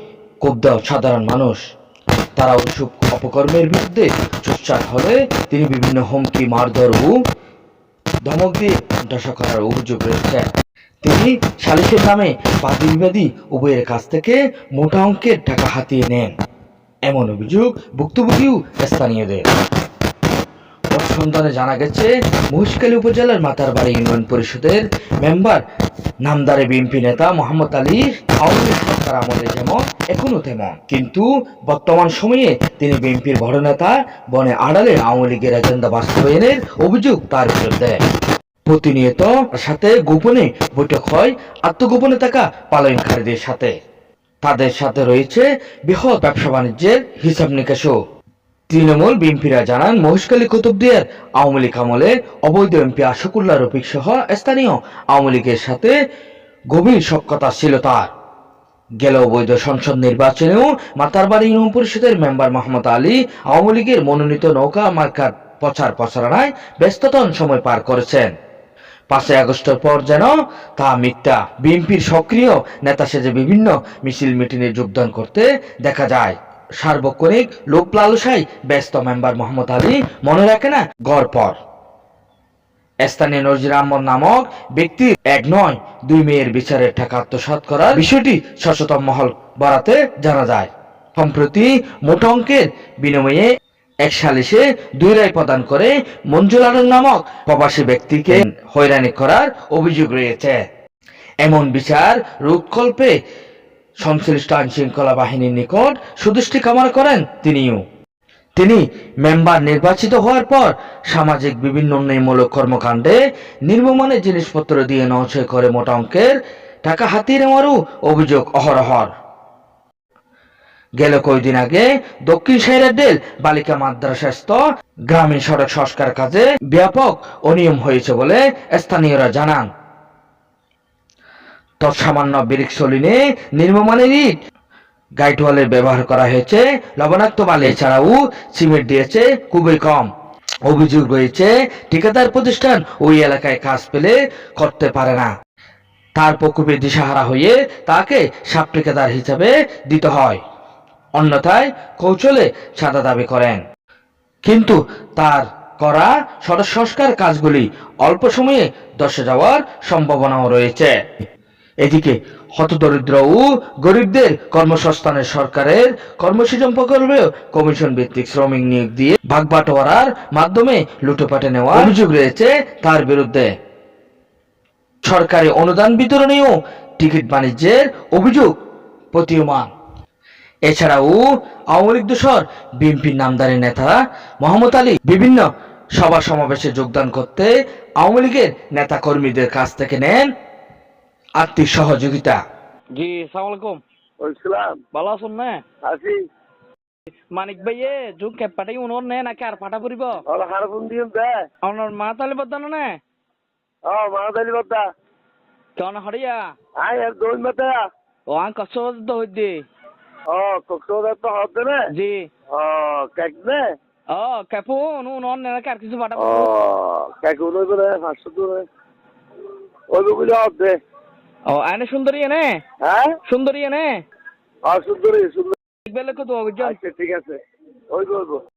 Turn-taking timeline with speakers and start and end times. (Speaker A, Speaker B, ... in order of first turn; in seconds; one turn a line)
Speaker A: 0.4-1.6
Speaker A: 2.4-7.1
Speaker A: 8.2-10.5
Speaker A: 11.0-16.3
Speaker A: 17.1-19.4
Speaker A: 20.9-25.6
Speaker A: 26.2-38.0
Speaker A: 38.7-43.7
Speaker A: 44.4-47.9
Speaker A: 48.7-55.9
Speaker A: 56.7-58.1
Speaker A: 59.0-68.3
Speaker A: 69.1-81.6
Speaker A: 83.0-93.5
Speaker A: 94.0-100.6
Speaker A: 101.4-103.1
Speaker A: 104.0-107.8
Speaker A: 108.6-119.1
Speaker A: 121.0-129.7
Speaker A: 131.8-134.3
Speaker A: 135.2-140.1
Speaker A: 140.7-145.3
Speaker A: 146.2-150.4
Speaker A: 151.2-153.6
Speaker A: 154.4-160.9
Speaker A: 161.8-173.5
Speaker A: 175.0-178.6
Speaker A: 179.1-179.7
Speaker A: 180.7-181.2
Speaker A: 181.7-190.2
Speaker A: 191.4-192.4
Speaker B: 192.9-193.8
Speaker C: 194.2-194.8
Speaker B: 194.9-195.6
Speaker C: 195.8-196.2
Speaker B: 197.3-200.2
Speaker C: 200.3-201.4
Speaker B: 201.6-203.0
Speaker C: 203.9-204.8
Speaker B: 205.8-206.5
Speaker C: 206.8-207.8
Speaker B: 208.3-209.6
Speaker C: 210.3-211.9
Speaker B: 211.9-212.3
Speaker C: 212.5-213.7
Speaker B: 214.1-216.5
Speaker C: 216.2-218.7
Speaker C: 219.9-220.8
Speaker B: 221.5-222.6
Speaker C: 222.8-223.2
Speaker B: 223.3-224.0
Speaker C: 224.7-225.6
Speaker B: 225.9-226.8
Speaker C: 226.6-227.4
Speaker C: 227.9-228.4